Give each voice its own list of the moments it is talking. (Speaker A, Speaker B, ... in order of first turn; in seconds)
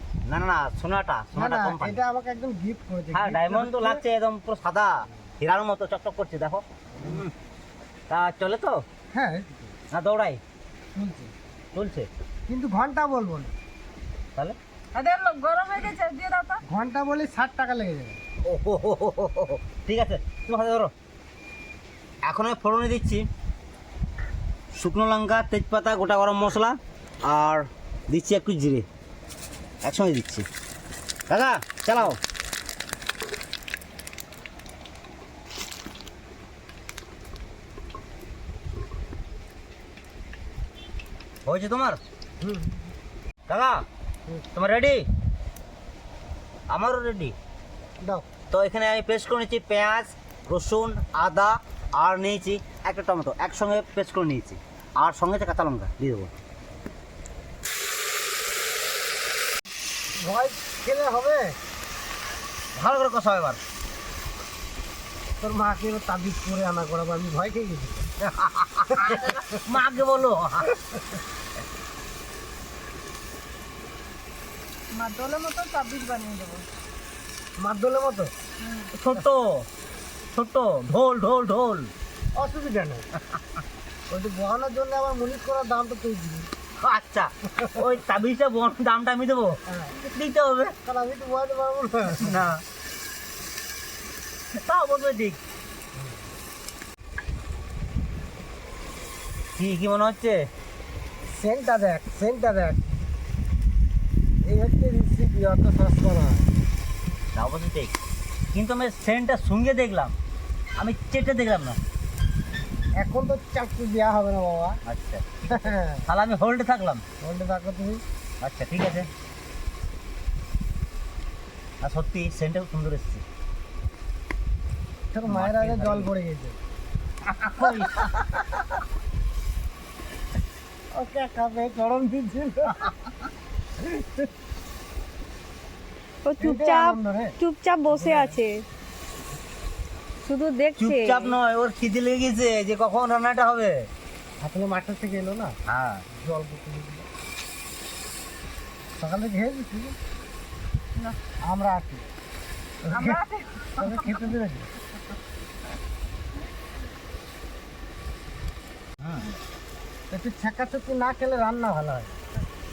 Speaker A: 0.2-2.0, 3.1-7.3, 8.1-8.8, 9.9-10.4, 11.7-12.1, 18.4-20.9, 22.2-23.3, 24.7-28.9, 29.8-30.5, 31.3-32.2, 41.5-42.0, 43.5-43.8, 44.5-45.0, 46.7-47.4, 48.5-56.3, 62.8-63.6, 68.3-70.8, 78.9-79.7, 80.3-81.9, 86.8-90.8, 92.1-92.6, 94.5-95.4, 99.5-100.5, 107.3-107.9, 108.5-110.1, 110.8-111.8, 114.8-117.0, 118.4-119.1, 121.8-123.2, 125.3-126.1, 127.2-128.1, 140.8-143.9, 145.7-146.0, 159.0-159.3
Speaker B: 1.3-4.0, 7.0-7.2, 9.1-9.7, 10.9-11.3, 12.5-13.5, 16.6-18.2, 42.4-42.9, 48.0-48.3, 60.2-61.6, 65.4-68.1, 68.9-69.4, 77.6-78.3, 82.3-83.1, 84.1-86.5, 89.7-89.9, 90.8-92.4, 101.3-102.9, 104.4-106.5, 113.0-114.8, 115.5-116.0, 117.2-118.0, 125.1-126.6, 127.9-128.4, 130.9-132.9, 133.8-134.3, 136.4-137.3, 137.9-138.4, 144.4-145.6, 146.1-147.1, 149.0-149.9, 151.4-152.0, 152.8-153.2, 153.8-154.7, 160.1-162.1
Speaker C: 14.9-16.6, 74.9-76.6, 78.6-78.9, 152.9-154.3
Speaker D: 136.2-138.6, 140.2-141.3